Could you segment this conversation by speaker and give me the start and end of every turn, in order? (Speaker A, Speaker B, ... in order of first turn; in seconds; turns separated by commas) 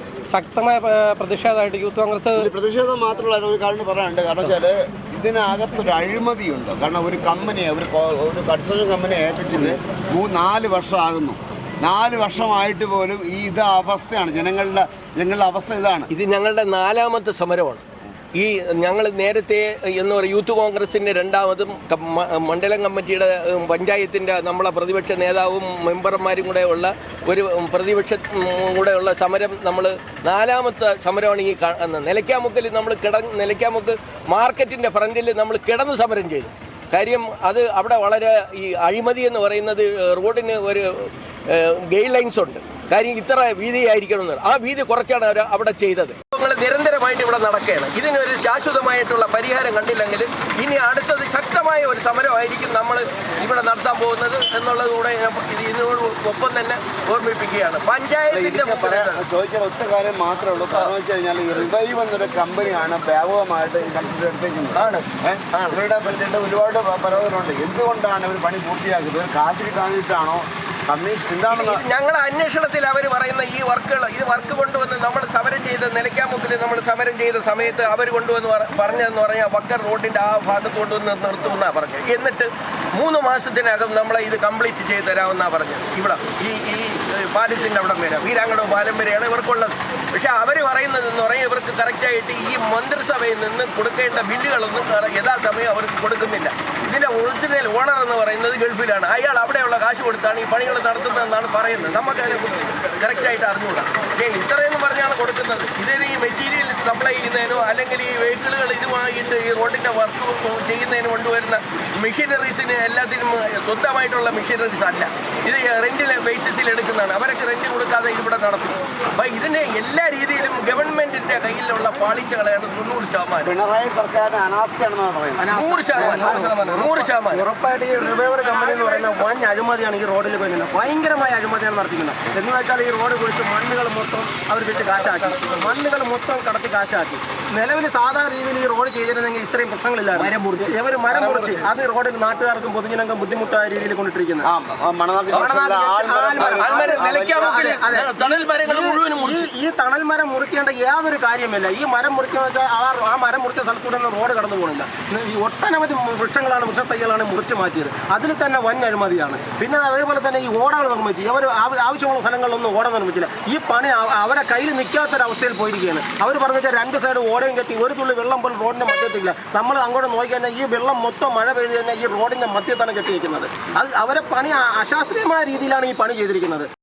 Speaker A: 0.3-2.5, Speaker B: 2.4-16.1, Speaker C: 16.1-17.8, Speaker C: 18.4-40.9, Speaker C: 41.5-59.2, Speaker B: 58.3-71.8, Speaker C: 64.8-65.0, Speaker C: 71.5-123.5, Speaker B: 123.4-125.6, Speaker D: 125.4-144.4, Speaker C: 125.5-127.4, Speaker C: 140.2-141.6, Speaker B: 144.4-147.5, Speaker D: 145.3-176.7, Speaker C: 146.4-149.5